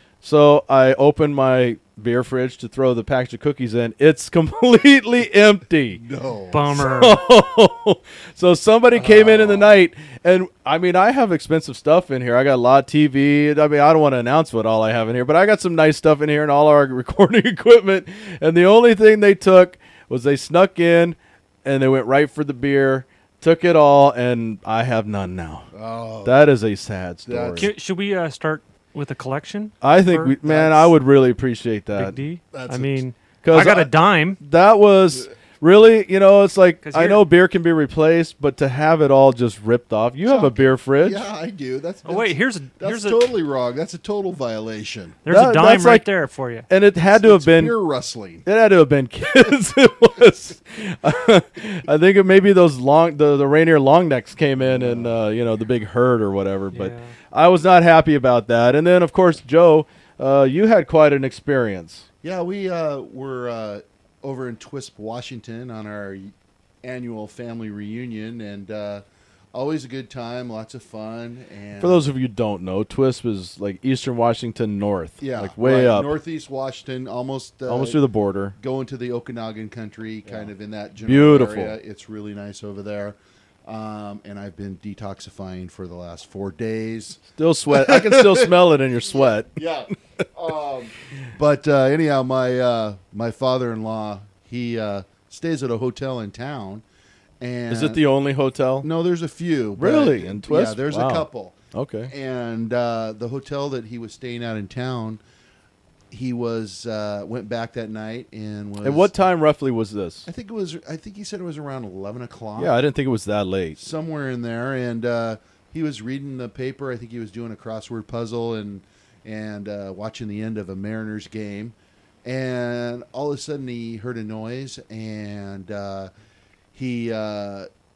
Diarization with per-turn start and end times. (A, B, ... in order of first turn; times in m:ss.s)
0:00.2-0:06.0 A
0:06.0-0:06.8 B
0:06.5-0:07.2 C
0:06.7-0:25.7 A
0:08.9-0:09.7 B
0:25.7-0:26.5 B
0:26.2-0:27.7 A
0:27.2-0:27.7 B
0:27.6-0:30.4 C
0:29.8-0:32.2 A
0:30.4-0:30.9 B
0:32.0-0:34.4 C
0:32.5-0:33.0 B
0:33.4-0:41.2 A
0:36.8-0:37.2 C
0:40.2-0:45.2 B
0:42.0-0:43.2 C
0:45.2-0:46.7 C
0:45.3-0:46.0 A
0:46.7-0:47.7 A
0:47.0-0:48.4 B
0:48.4-1:02.0 A
0:54.6-0:55.1 B
0:56.7-0:57.1 C
1:02.2-1:09.0 B
1:09.5-1:12.0 B
1:11.8-1:16.1 A
1:15.2-1:18.0 B
1:17.7-1:18.5 A
1:18.6-1:36.8 B
1:21.0-1:21.8 A
1:27.4-1:29.5 A
1:37.4-1:38.0 B
1:37.7-1:38.9 A
1:38.8-1:41.6 B
1:39.8-1:42.1 A
1:42.1-1:45.2 B
1:46.1-1:49.1 B
1:48.8-1:50.3 A
1:50.3-1:52.8 B
1:52.6-1:53.8 A
1:53.8-2:06.1 B
2:06.7-2:07.7 B